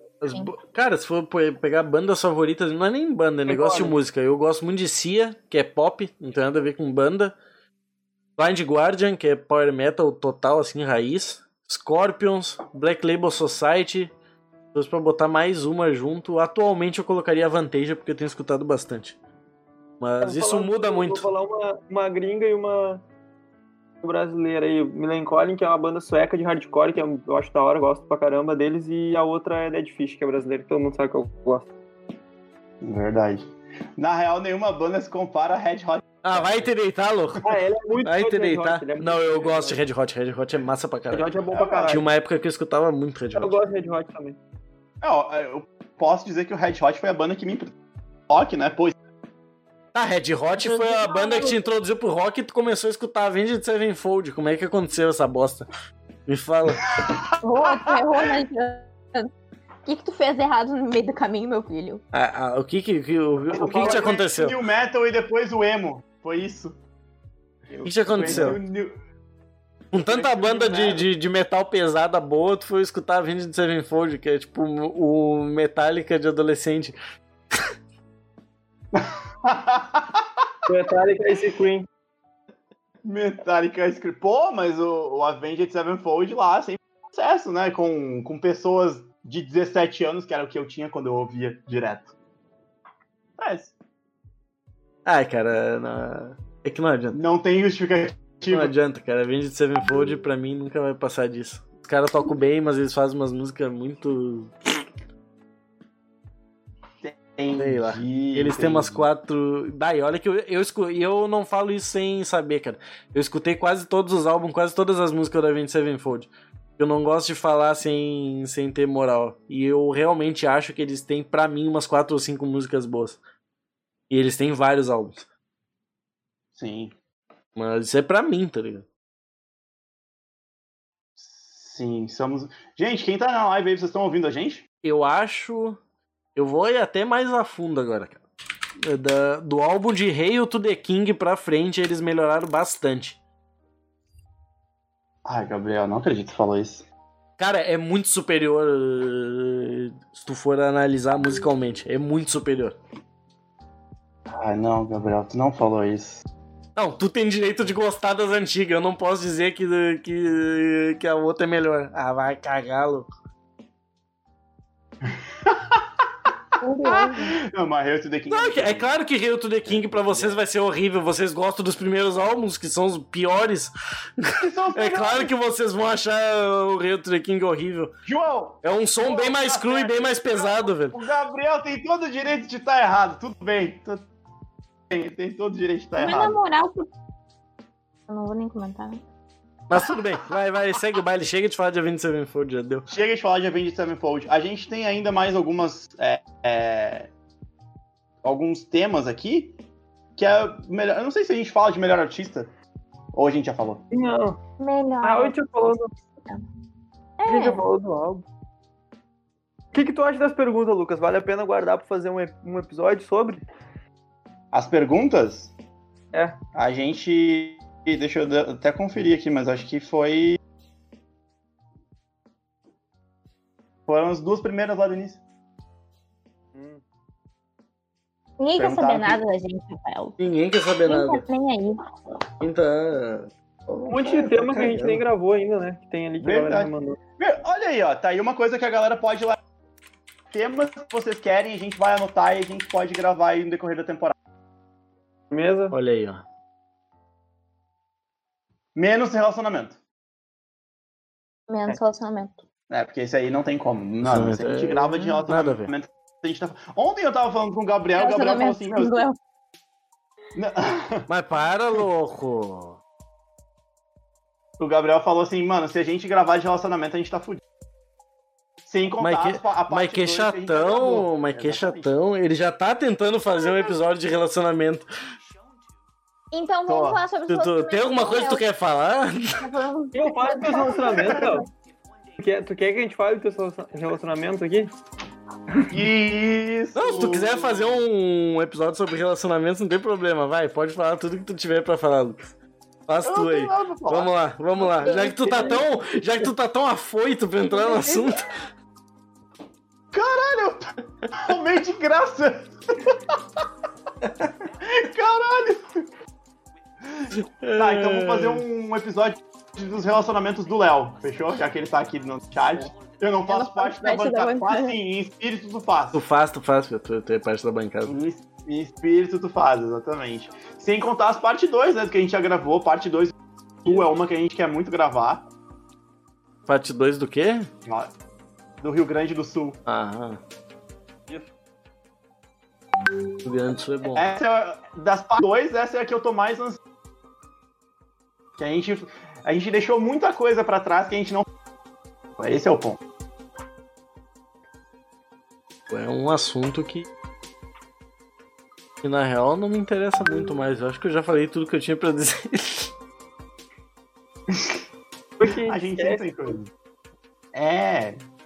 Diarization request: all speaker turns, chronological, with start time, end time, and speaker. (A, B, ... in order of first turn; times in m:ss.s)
0:00.2-0:07.3 A
0:03.5-0:03.9 B
0:08.4-0:14.1 A
0:14.7-0:19.2 A
0:20.0-0:21.2 A
0:20.2-0:23.0 B
0:24.0-0:31.7 B
0:32.8-0:36.7 C
0:36.2-0:41.3 A
0:37.4-0:39.8 B
0:41.1-0:42.0 B
0:41.5-0:42.0 C
0:41.9-0:43.6 A
0:43.3-0:44.4 B
0:45.0-0:47.7 C
0:48.3-0:49.0 C
0:49.9-0:55.7 A
0:50.6-0:51.6 D
0:56.3-0:57.1 A
0:56.8-0:58.2 C
0:57.4-0:59.3 D
0:59.8-1:02.0 D
1:02.1-1:04.6 A
1:03.5-1:06.8 C
1:03.5-1:04.2 B
1:07.7-1:08.6 B
1:07.8-1:08.6 A
1:08.1-1:08.9 C
1:09.9-1:16.9 A
1:10.1-1:11.0 B
1:18.9-1:20.3 C
1:20.7-1:21.9 B
1:23.0-1:32.1 C
1:33.4-1:33.8 C
1:35.0-1:37.2 A
1:37.1-1:38.7 C
1:38.5-1:44.8 A
1:47.0-1:49.0 C
1:47.6-2:03.2 A
2:04.1-2:05.2 A
2:06.5-2:06.9 C
2:07.6-2:08.8 A
2:11.2-2:14.6 C
2:14.8-2:15.8 A
2:16.4-2:18.2 A
2:18.8-2:23.2 A
2:25.2-2:26.8 C
2:27.4-2:32.8 A
2:34.3-2:36.2 C
2:36.8-2:43.1 A
2:45.0-2:45.8 C
2:46.6-2:47.4 D
2:46.8-2:49.0 C
2:48.3-2:57.9 A
2:49.6-2:50.4 C
2:54.4-2:55.3 C
2:58.0-3:04.1 C
2:58.6-3:01.0 A
3:04.9-3:06.4 C
3:06.0-3:06.9 D
3:08.1-3:09.0 D
3:09.7-3:12.9 A
3:12.9-3:17.1 C
3:18.2-3:19.6 C
3:20.2-3:22.5 C
3:23.1-3:23.8 C
3:23.9-3:24.4 B
3:24.6-3:25.4 D
3:25.0-3:25.9 B
3:27.2-3:27.6 D
3:27.3-3:28.2 B
3:29.7-3:33.4 B
3:34.5-3:35.5 C
3:36.5-3:40.4 C
3:43.9-3:45.2 C
3:46.5-3:46.8 B
3:48.4-3:50.2 D
3:48.6-3:49.2 C
3:50.2-3:51.2 A
3:50.8-3:51.8 D
3:52.4-3:55.0 A
3:53.9-3:57.0 B
3:56.2-3:59.4 C
4:00.3-4:04.1 C
4:05.3-4:05.7 B
4:05.7-4:06.2 A
4:08.7-4:09.8 C
4:11.5-4:12.4 D
4:12.7-4:19.0 C
4:14.0-4:15.7 A
4:18.0-4:19.2 D
4:20.3-4:21.1 C
4:21.1-4:22.8 A
4:24.6-4:27.4 C
4:28.6-4:31.9 C
4:29.0-4:34.9 A
4:36.3-4:38.4 D
4:36.7-4:37.0 C
4:37.3-4:39.4 A
4:39.4-4:41.5 D
4:39.9-4:41.4 B
4:41.0-4:41.3 C
4:42.2-4:44.7 B
4:45.7-4:47.8 C
4:46.7-4:52.3 A
4:52.9-4:58.3 A
4:53.0-4:54.1 C
4:54.8-4:55.6 D
4:54.9-4:55.4 B
4:57.5-4:58.0 D
4:59.9-5:03.2 C
5:04.6-5:05.9 C
5:06.8-5:16.0 C
5:07.1-5:08.4 A
5:13.3-5:14.8 D
5:15.9-5:17.9 A
5:17.8-5:25.2 C
5:26.5-5:27.5 A
5:27.6-5:27.9 C
5:28.6-5:29.6 C
5:29.7-5:30.2 A
5:33.2-5:34.1 A
5:33.9-5:36.6 C
5:38.4-5:41.3 C
5:42.2-5:42.8 C
5:45.7-5:46.9 A
5:48.8-5:52.7 A
5:54.3-5:54.6 C
5:55.2-5:56.2 B
5:55.4-5:56.5 C
5:57.3-5:58.0 C